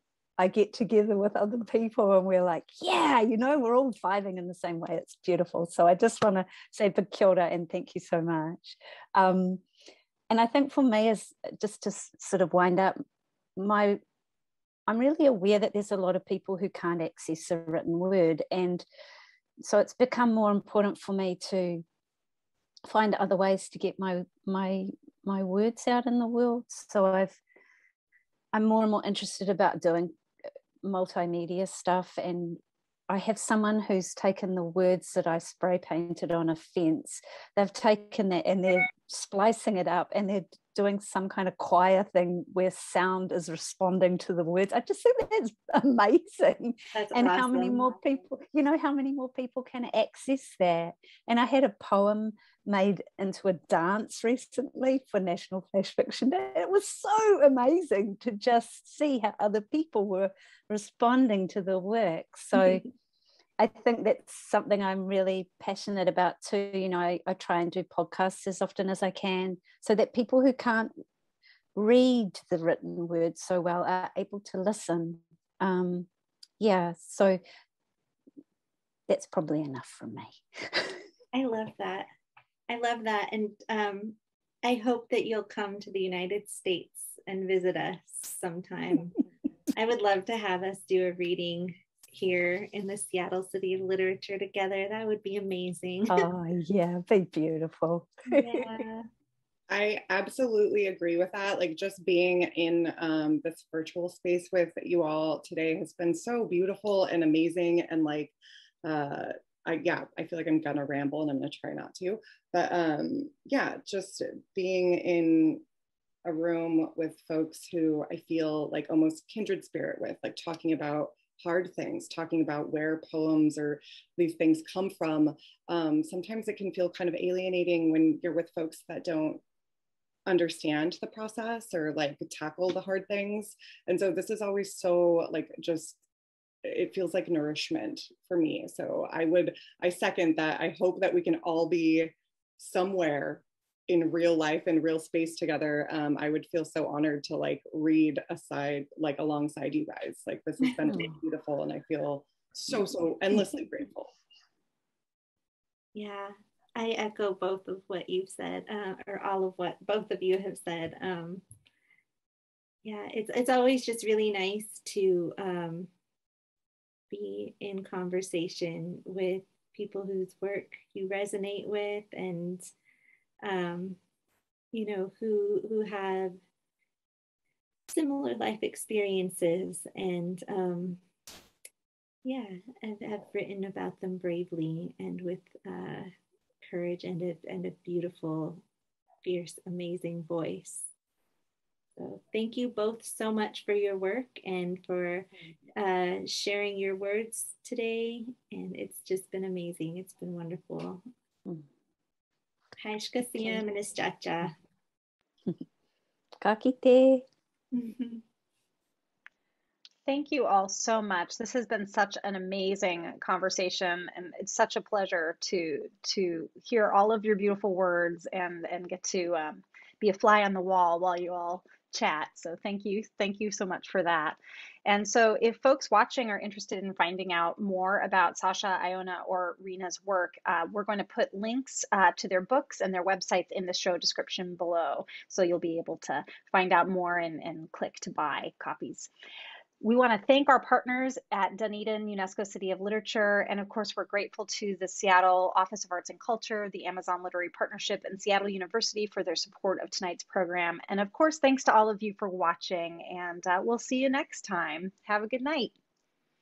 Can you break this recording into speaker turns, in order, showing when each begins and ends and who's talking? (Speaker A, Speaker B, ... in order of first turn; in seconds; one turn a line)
Speaker A: 0.4-9.6
Speaker A: 10.3-13.0
Speaker A: 13.6-14.0
Speaker A: 14.9-18.8
Speaker A: 19.6-21.8
Speaker A: 22.9-27.4
Speaker A: 28.5-30.1
Speaker A: 30.8-62.8
Speaker B: 46.9-48.0
Speaker A: 63.6-70.9
Speaker A: 71.8-76.1
Speaker A: 76.6-77.4
Speaker A: 79.1-81.0
Speaker B: 81.3-82.1
Speaker B: 82.7-89.2
Speaker B: 89.7-96.2
Speaker A: 96.1-98.8
Speaker B: 98.3-99.1
Speaker C: 99.7-115.6
Speaker C: 116.2-129.4
Speaker C: 130.3-136.0
Speaker C: 136.6-154.1
Speaker B: 155.9-161.4
Speaker B: 162.8-165.9
Speaker B: 167.1-172.7
Speaker B: 173.4-174.0
Speaker B: 174.7-176.4
Speaker B: 177.9-181.0
Speaker B: 182.2-186.1
Speaker B: 186.6-188.6
Speaker B: 189.2-190.9
Speaker B: 192.0-201.0
Speaker B: 202.8-204.6
Speaker A: 206.4-207.2
Speaker B: 207.7-208.2
Speaker D: 210.1-239.1
Speaker D: 239.8-255.7